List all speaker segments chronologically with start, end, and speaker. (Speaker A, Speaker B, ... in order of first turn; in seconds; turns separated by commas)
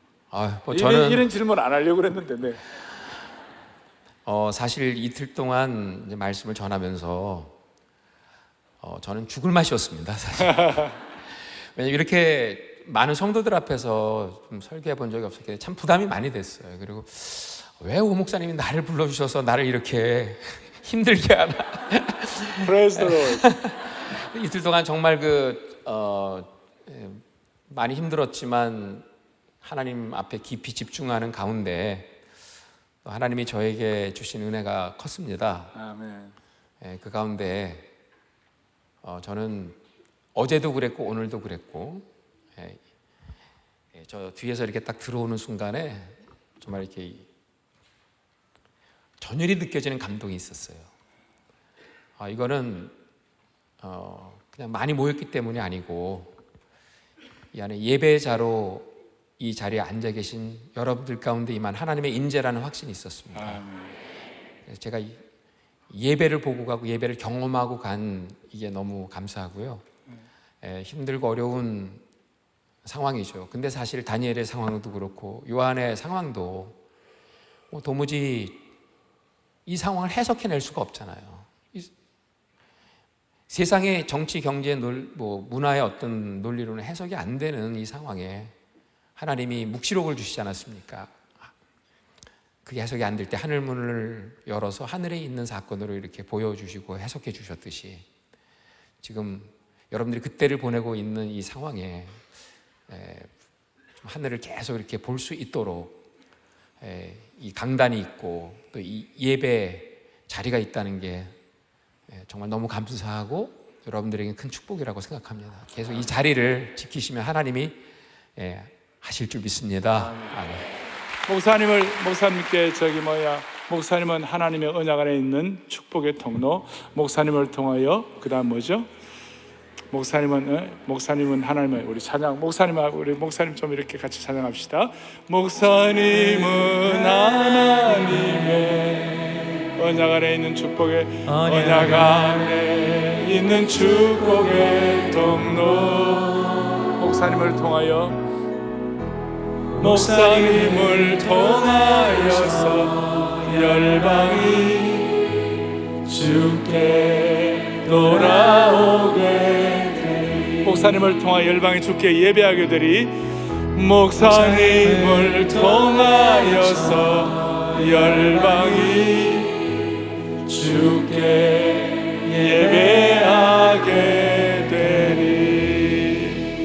Speaker A: 0.3-1.3, Speaker B: 0.7-2.6, Speaker A: 4.2-7.6, Speaker A: 8.8-10.9, Speaker B: 10.6-10.9, Speaker A: 11.6-29.1, Speaker B: 22.6-23.5, Speaker A: 29.6-32.1, Speaker A: 33.0-35.7, Speaker B: 35.7-36.4, Speaker A: 36.8-37.9, Speaker A: 39.0-39.8, Speaker A: 40.4-42.8, Speaker A: 43.9-47.3, Speaker A: 49.2-50.9, Speaker A: 52.2-52.9, Speaker A: 53.8-56.4, Speaker A: 57.5-63.6, Speaker B: 63.3-64.0, Speaker A: 64.7-65.2, Speaker A: 65.9-69.8, Speaker A: 70.6-72.0, Speaker A: 72.8-76.8, Speaker A: 77.7-78.7, Speaker A: 79.7-81.9, Speaker A: 83.5-88.5, Speaker A: 89.2-91.5, Speaker A: 92.7-98.0, Speaker A: 99.0-102.2, Speaker A: 102.9-103.3, Speaker A: 104.0-106.0, Speaker A: 106.8-111.3, Speaker A: 112.1-117.8, Speaker A: 118.4-120.7, Speaker B: 121.3-128.9, Speaker B: 129.9-148.2, Speaker B: 149.8-155.4, Speaker B: 156.1-169.9, Speaker B: 170.4-176.4